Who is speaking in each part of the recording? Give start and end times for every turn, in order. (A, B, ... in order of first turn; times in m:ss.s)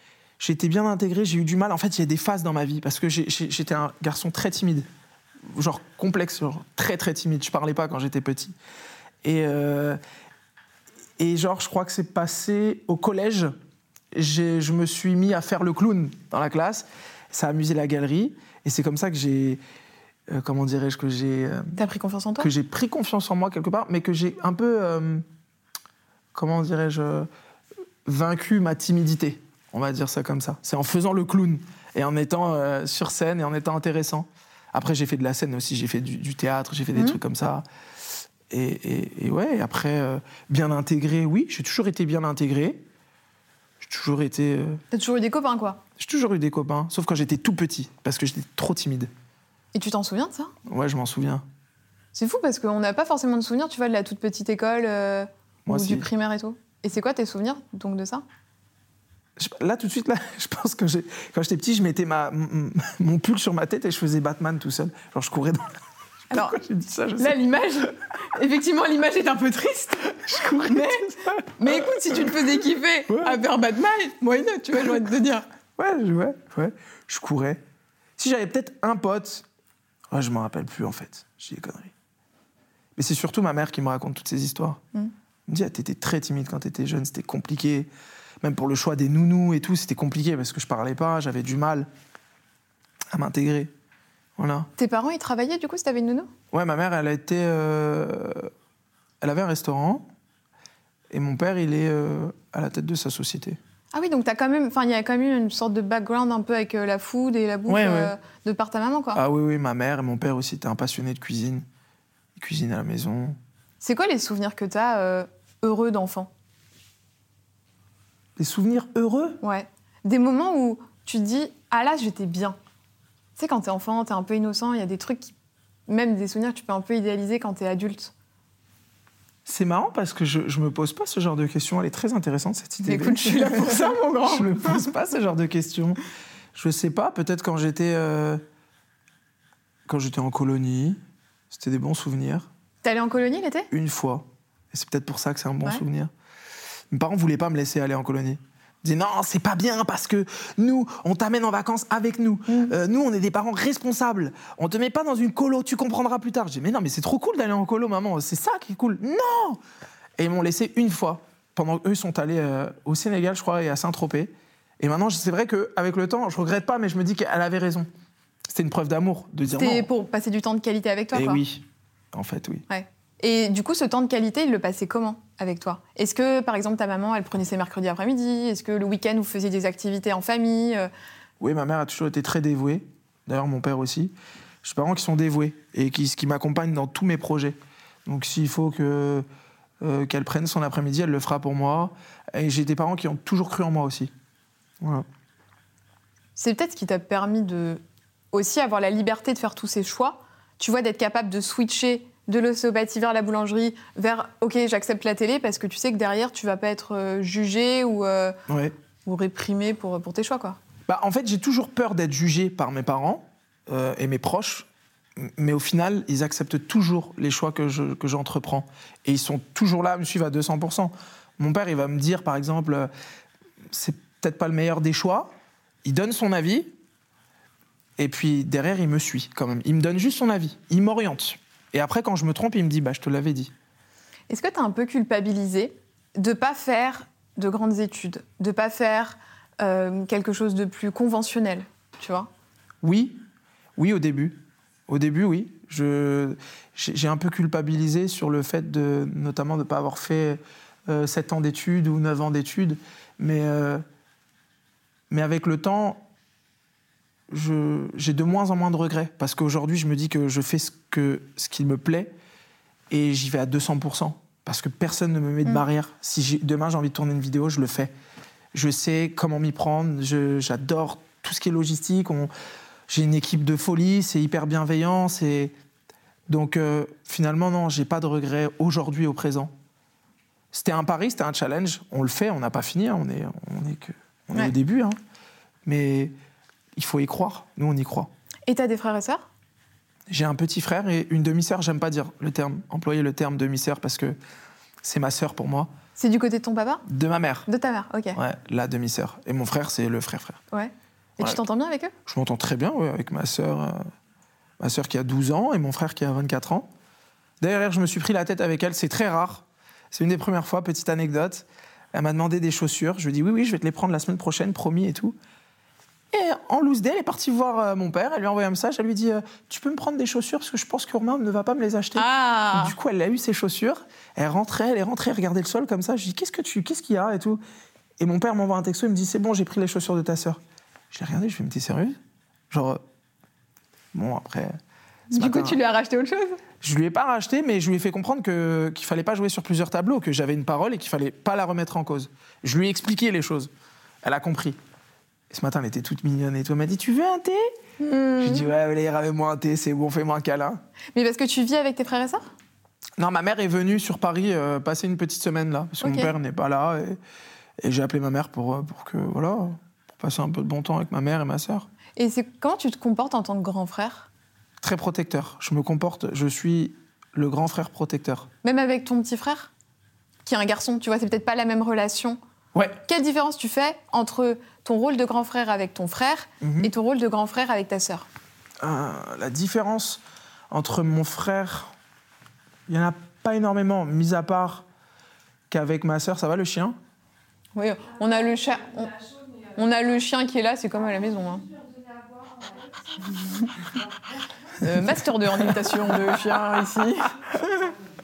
0:00.4-0:04.9 A
0:05.5-0:08.6 A
0:09.2-0:10.0 A
0:11.2-0:13.5 A
0:14.1-0:19.6 A
0:20.3-0:21.8 A
0:21.8-0:22.5 B
0:22.4-0:25.2 A
0:26.4-0:27.3 A
0:28.0-0:37.6 A
0:38.5-0:42.8 A
0:43.8-0:44.8 A
0:44.9-0:45.8 B
0:46.0-0:49.1 A
0:49.7-0:50.5 B
0:50.7-0:51.5 A
0:52.1-0:58.2 B
0:55.7-0:56.1 A
0:59.4-1:05.7 A
1:06.3-1:07.4 A
1:06.3-1:06.6 B
1:07.2-1:15.5 B
1:10.2-1:13.4 A
1:15.8-1:17.6 A
1:18.2-1:19.5 A
1:20.1-1:21.9 A
1:23.0-1:24.8 A
1:25.5-1:27.9 A
1:28.4-1:31.9 A
1:33.1-1:33.7 A
1:34.4-1:34.7 A
1:34.8-1:36.3 B
1:36.5-1:38.5 A
1:39.2-1:40.1 A
1:41.1-1:43.6 A
1:43.9-1:49.2 B
1:47.7-1:48.1 A
1:49.1-1:51.6 A
1:52.4-1:53.4 A
1:53.8-1:56.3 B
1:58.4-1:59.4 A
1:59.4-2:02.6 B
2:03.4-2:05.3 B
2:05.9-2:08.1 B
2:09.5-2:16.0 A
2:12.8-2:14.9 B
2:16.6-2:18.4 A
2:19.9-2:21.0 A
2:21.5-2:22.5 A
2:22.8-2:23.7 B
2:23.7-2:26.1 A
2:26.9-2:39.6 A
2:32.5-2:32.8 B
2:40.2-2:47.9 A
2:48.5-2:49.9 A
2:49.6-2:51.4 B
2:51.1-2:52.6 A
2:52.7-3:00.9 B
3:01.4-3:09.2 A
3:09.8-3:14.1 A
3:16.4-3:17.8 B
3:18.3-3:28.4 B
3:28.5-3:28.7 A
3:29.1-3:30.6 B
3:30.9-3:42.9 A
3:43.7-3:45.3 A
3:45.8-3:46.7 A
3:48.0-3:53.5 A
3:54.3-4:02.3 B
4:02.8-4:03.2 A
4:03.8-4:13.8 A
4:15.1-4:16.0 A
4:17.3-4:22.1 A
4:22.9-4:27.9 A
4:28.5-4:32.3 A
4:32.9-4:35.5 A
4:36.3-4:39.5 A
4:40.5-4:45.0 A
4:45.6-4:46.1 A
4:46.8-4:48.1 A
4:48.5-4:49.3 B
4:50.1-4:54.2 A
4:54.8-4:55.7 A
4:56.0-4:56.8 B
4:56.8-4:57.5 A
4:57.5-4:58.2 B
4:58.2-5:00.4 A
5:00.5-5:01.9 B
5:02.1-5:03.8 A
5:04.6-5:06.7 A
5:07.4-5:15.2 A
5:16.1-5:27.4 A
5:22.0-5:22.8 B
5:28.0-5:30.4 A
5:30.9-5:32.0 A
5:32.5-5:32.8 A
5:33.9-5:34.6 A
5:35.1-5:36.4 B
5:35.1-5:35.6 A
5:36.6-5:43.5 A
5:44.0-5:44.6 A
5:45.3-5:47.4 A
5:47.8-5:48.5 B
5:48.2-5:50.6 A
5:51.0-5:52.3 B
5:53.0-5:57.0 A
5:55.8-5:56.2 B
5:57.6-6:01.7 A
6:02.0-6:04.1 B
6:04.6-6:08.3 A
6:08.4-6:09.5 B
6:10.2-6:12.2 B
6:12.5-6:12.8 A
6:12.9-6:18.1 B
6:16.4-6:16.7 A
6:18.6-6:21.7 A
6:22.7-6:24.7 A
6:25.5-6:26.8 A
6:27.6-6:31.6 B
6:33.1-6:33.5 B
6:34.6-6:37.2 B
6:34.8-6:36.2 A